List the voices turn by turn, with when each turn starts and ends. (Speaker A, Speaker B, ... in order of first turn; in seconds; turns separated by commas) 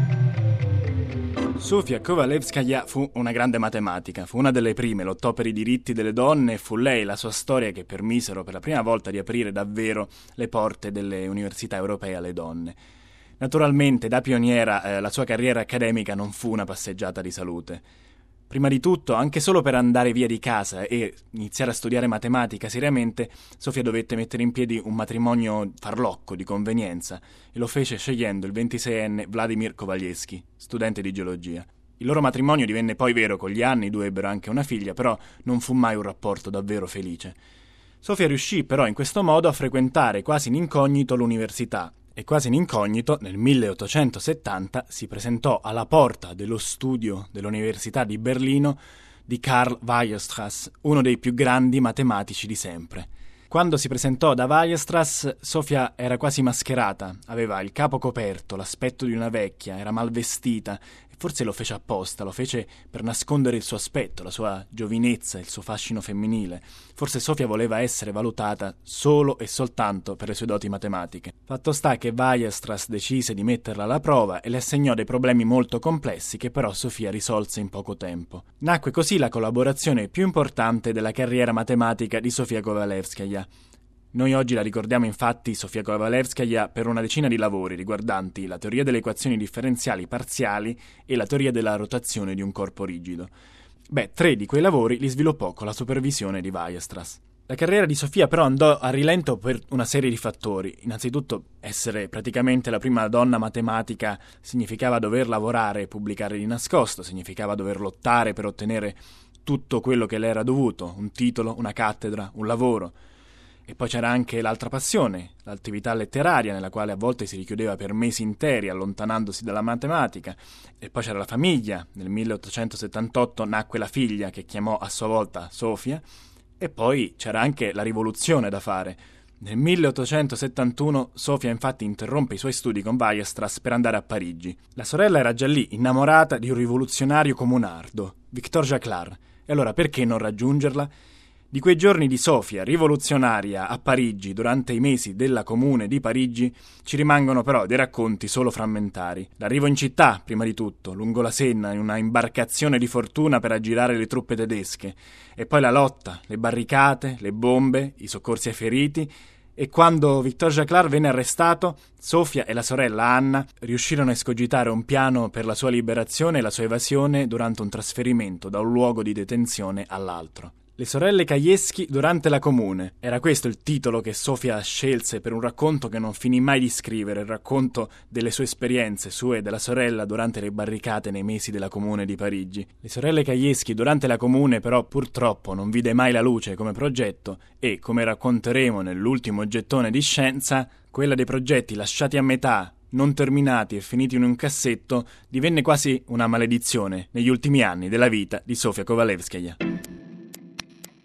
Speaker A: 1.6-12.8, Speaker A: 13.4-17.8, Speaker A: 18.5-37.4, Speaker A: 38.0-83.5, Speaker A: 84.1-93.3, Speaker A: 93.9-113.0, Speaker A: 113.7-126.0, Speaker A: 126.6-140.9, Speaker A: 141.5-199.6